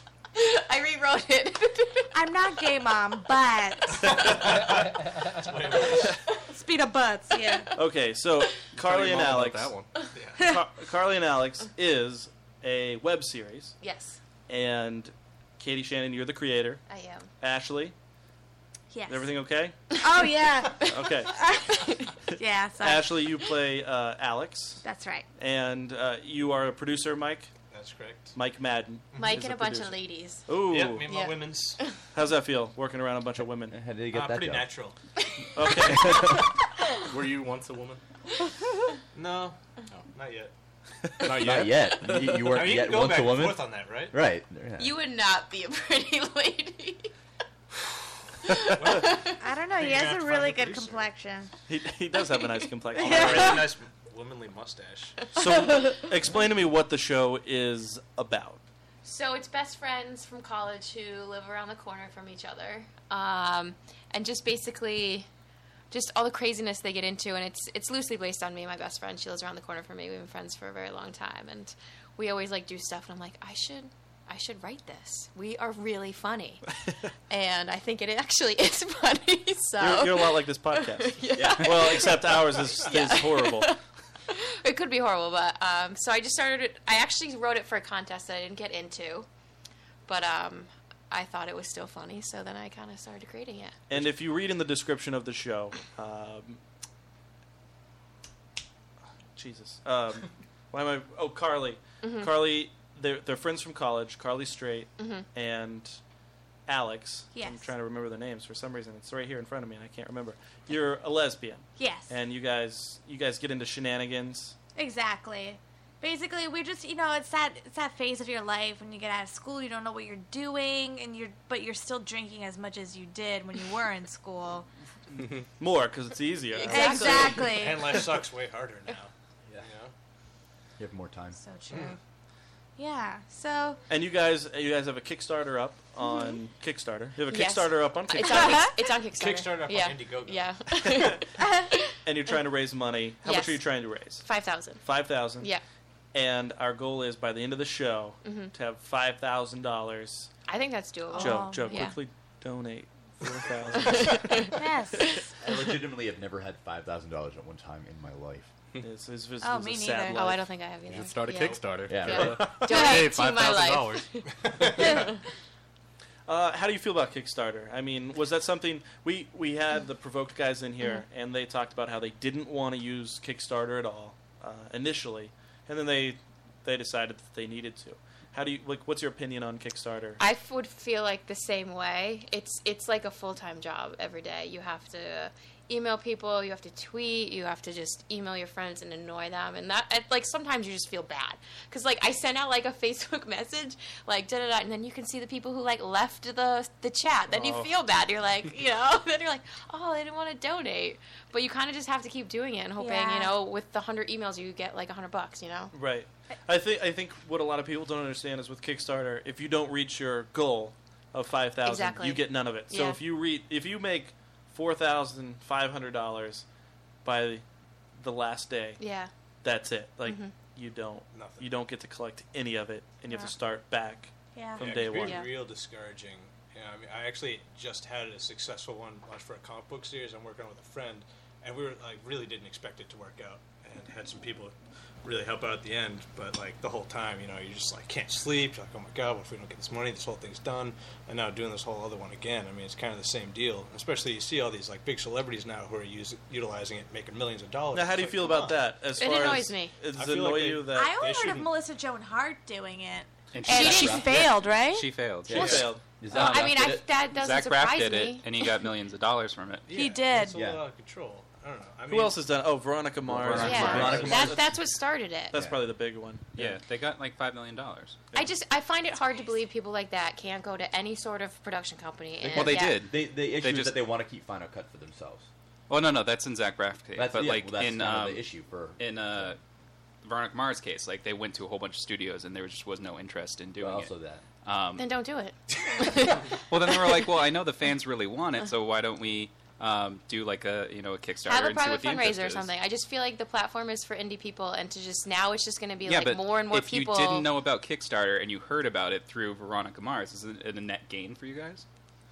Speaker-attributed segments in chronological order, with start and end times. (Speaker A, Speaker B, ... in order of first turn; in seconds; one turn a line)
Speaker A: 0.3-2.1
Speaker B: 2.1-4.3
Speaker C: 4.0-6.2
Speaker B: 6.5-7.7
Speaker D: 7.7-9.8
Speaker E: 8.7-9.9
Speaker C: 10.1-10.5
Speaker B: 10.4-10.6
Speaker D: 10.4-13.8
Speaker A: 13.8-14.2
Speaker D: 14.5-16.8
Speaker A: 16.9-17.3
Speaker D: 17.4-17.9
Speaker B: 18.9-19.3
Speaker D: 19.1-19.7
Speaker B: 20.0-23.1
Speaker D: 20.9-21.4
Speaker A: 21.5-22.1
Speaker D: 22.8-24.8
Speaker B: 24.8-25.2
Speaker D: 25.4-27.5
Speaker C: 27.7-28.4
Speaker D: 28.3-31.1
Speaker C: 29.1-29.4
Speaker A: 29.1-30.5
Speaker C: 30.6-31.8
Speaker A: 31.0-31.9
Speaker D: 32.1-33.8
Speaker F: 33.7-34.7
Speaker C: 34.1-35.0
Speaker D: 35.5-36.3
Speaker F: 35.9-36.4
Speaker E: 37.1-38.0
Speaker C: 39.1-39.6
Speaker C: 40.1-40.5
Speaker E: 41.2-42.4
Speaker F: 41.4-45.0
Speaker C: 42.4-44.1
Speaker A: 44.8-47.1
Speaker A: 48.4-49.4
Speaker C: 48.5-51.1
Speaker B: 49.4-51.5
Speaker D: 51.7-53.7
Speaker C: 52.9-55.2
Speaker B: 53.0-53.6
Speaker A: 55.2-56.0
Speaker D: 55.3-58.6
Speaker A: 59.0-65.3
Speaker A: 65.9-76.6
Speaker A: 77.3-89.3
Speaker D: 79.8-83.7
Speaker F: 81.3-82.3
Speaker A: 90.0-93.8
Speaker D: 93.9-96.6
Speaker D: 99.3-106.0
Speaker A: 102.0-102.3
Speaker A: 105.0-105.2
Speaker D: 106.7-114.5
Speaker B: 107.3-107.7
Speaker B: 111.8-112.1
Speaker B: 114.8-124.7
Speaker D: 125.6-127.5
Speaker A: 126.5-127.6
Speaker B: 126.7-128.0
Speaker C: 126.9-129.9
Speaker F: 130.8-131.4
Speaker B: 131.3-132.0
Speaker B: 132.8-133.8
Speaker D: 133.9-138.7
Speaker A: 136.0-136.3
Speaker A: 137.2-141.9
Speaker B: 138.4-138.7
Speaker C: 139.1-140.9
Speaker D: 142.0-144.3
Speaker A: 143.2-144.8
Speaker D: 144.8-145.5
Speaker D: 146.1-150.3
Speaker A: 148.2-148.5
Speaker A: 150.5-152.0
Speaker B: 151.1-151.9
Speaker D: 151.2-154.6
Speaker A: 153.8-154.5
Speaker B: 154.5-155.3
Speaker F: 155.4-158.5
Speaker D: 158.8-160.4
Speaker B: 159.4-160.2
Speaker A: 160.2-165.2
Speaker E: 160.9-164.1
Speaker F: 161.8-162.5
Speaker B: 162.7-163.1
Speaker C: 164.5-165.0
Speaker B: 164.8-165.1
Speaker D: 166.3-180.2
Speaker A: 180.2-205.7
Speaker D: 197.3-197.7
Speaker B: 202.8-203.3
Speaker D: 205.7-216.4
Speaker A: 211.6-213.0
Speaker D: 217.0-217.4
Speaker D: 218.0-218.8
Speaker A: 218.8-219.1
Speaker D: 219.4-225.2
Speaker A: 220.0-220.3
Speaker C: 221.1-221.4
Speaker B: 224.3-224.6
Speaker C: 224.6-248.7
Speaker A: 225.0-225.4
Speaker D: 247.7-250.9
Speaker A: 249.0-249.8
Speaker C: 249.9-251.5
Speaker B: 250.7-254.9
Speaker G: 253.3-259.7
Speaker F: 253.4-254.2
Speaker A: 253.5-254.1
Speaker F: 255.2-256.8
Speaker D: 255.3-255.8
Speaker A: 256.1-258.5
Speaker C: 259.7-262.2
Speaker B: 259.7-260.4
Speaker F: 260.3-260.6
Speaker D: 261.9-264.4
Speaker F: 263.1-264.4
Speaker C: 263.3-264.2
Speaker G: 263.3-263.9
Speaker A: 263.4-265.4
Speaker D: 265.3-266.5
Speaker F: 265.3-265.6
Speaker G: 266.3-268.0
Speaker A: 268.1-272.8
Speaker G: 272.3-273.8
Speaker F: 272.3-275.3
Speaker G: 275.7-279.4
Speaker F: 276.9-279.3
Speaker G: 280.0-284.9
Speaker F: 283.6-284.2
Speaker A: 284.8-287.1
Speaker G: 286.5-292.5
Speaker A: 291.2-297.3
Speaker G: 295.8-301.6